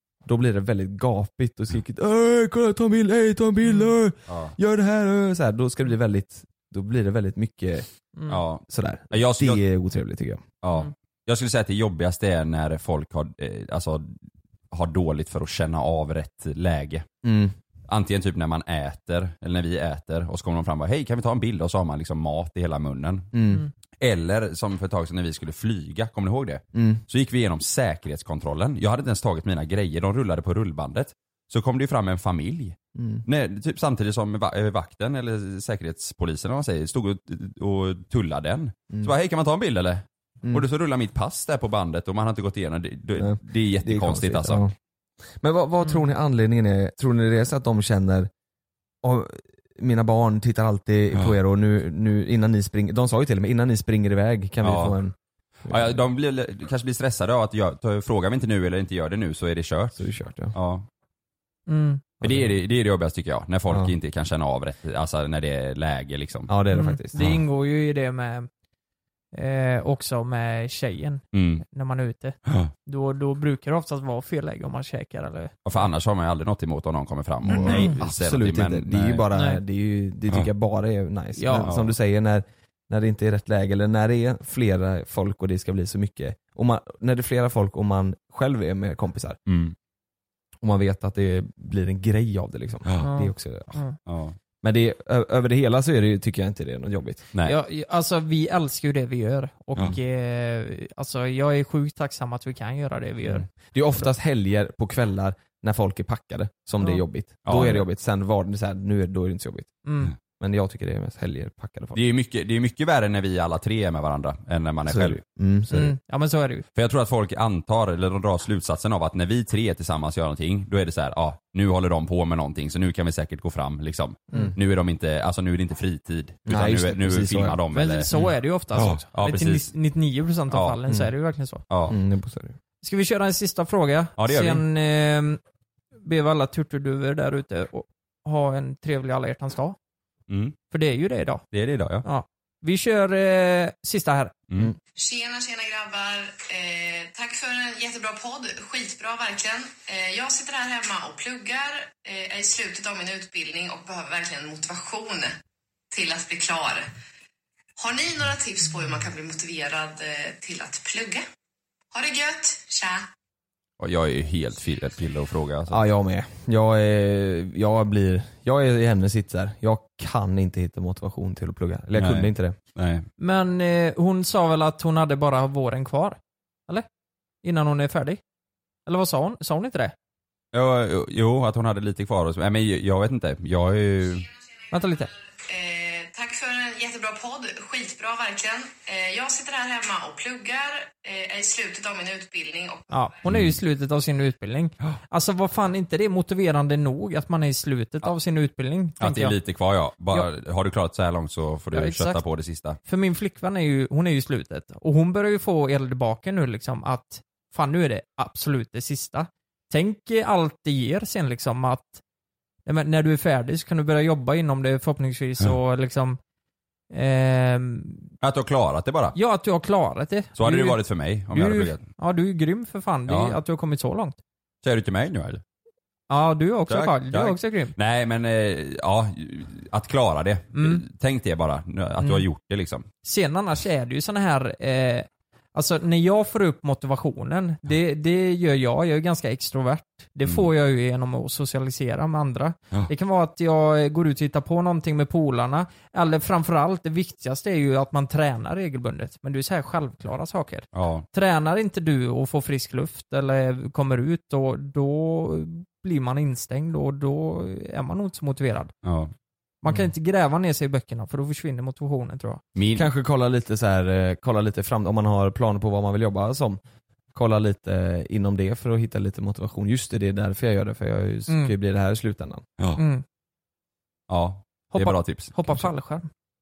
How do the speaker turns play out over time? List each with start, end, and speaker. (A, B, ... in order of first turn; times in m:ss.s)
0:00.2-0:07.9 A
0:03.6-0:03.9 B
0:04.3-0:04.5 C
0:08.2-0:08.4 B
0:08.3-0:09.6 C
0:08.7-0:10.4 A
0:10.6-0:14.1 C
0:14.7-0:17.0 C
0:17.2-0:17.5 A
0:17.9-0:23.3 C
0:23.3-0:23.6 A
0:24.0-0:44.6 C
0:26.7-0:27.0 A
0:33.0-0:33.2 A
0:43.2-0:44.7 A
0:45.4-0:48.3 A
0:49.0-0:55.1 A
0:54.6-0:55.0 C
0:55.7-0:56.0 A
0:55.7-1:00.0 C
1:00.0-1:00.5 A
1:00.5-1:00.8 C
1:01.7-1:02.0 B
1:02.2-1:02.5 A
1:02.2-1:06.5 C
1:06.5-1:07.2 A
1:06.7-1:08.5 B
1:07.2-1:07.4 C
1:09.3-1:15.8 B
1:11.3-1:11.6 C
1:12.4-1:12.7 C
1:15.6-1:19.2 C
1:17.5-1:29.4 A
1:17.6-1:17.9 B
1:19.3-1:19.6 B
1:21.4-1:21.7 B
1:21.6-1:21.9 C
1:29.5-1:29.7 C
1:30.6-1:33.8 A
1:33.0-1:34.0 B
1:34.0-1:34.4 C
1:34.6-1:37.2 A
1:37.4-1:43.4 B
1:43.3-1:49.7 A
1:47.4-1:47.8 C
1:49.8-1:50.1 B
1:50.4-1:52.0 A
1:51.9-1:55.2 C
1:54.9-1:55.9 A
1:55.7-1:56.6 B
1:56.7-2:09.7 C
2:06.4-2:07.6 A
2:07.7-2:11.6 B
2:10.5-2:10.8 C
2:11.7-2:12.0 C
2:11.9-2:12.6 A
2:12.8-2:15.4 B
2:14.2-2:14.6 C
2:16.0-2:19.8 B
2:20.3-2:20.6 C
2:20.7-2:21.4 B
2:21.5-2:22.0 C
2:22.0-2:24.3 B
2:25.0-2:35.3 D
2:35.9-2:36.9 D
2:37.8-2:41.2 D
2:41.9-2:43.0 D
2:43.8-2:45.8 C
2:45.7-2:52.5 A
2:52.0-2:53.1 C
2:53.2-2:56.8 B
2:57.4-2:58.2 B
2:58.8-2:59.9 B
3:00.5-3:04.3 C
3:04.7-3:05.1 B
3:05.4-3:12.9 D
3:12.9-3:19.3 B
3:13.3-3:13.6 C
3:19.0-3:22.8 C
3:21.7-3:22.2 B
3:22.8-3:32.0 B
3:32.6-3:36.2 B
3:36.9-3:38.1 B
3:38.2-3:39.2 C
3:39.1-3:40.8 B
3:40.4-3:41.8 C
3:41.3-3:44.2 B
3:43.1-3:43.4 C
3:44.6-3:45.4 C
3:46.1-3:47.7 B
3:46.7-3:52.8 C
3:50.5-3:50.8 B
3:53.0-4:18.7 B
4:10.7-4:11.0 C
4:18.8-4:19.1 C
4:19.6-4:22.4 B
4:22.6-4:22.9 C
4:22.7-4:26.6 A
4:27.1-4:32.4 A
4:31.3-4:31.5 B
4:32.8-4:33.0 B
4:34.1-4:35.6 C
4:34.7-4:36.1 B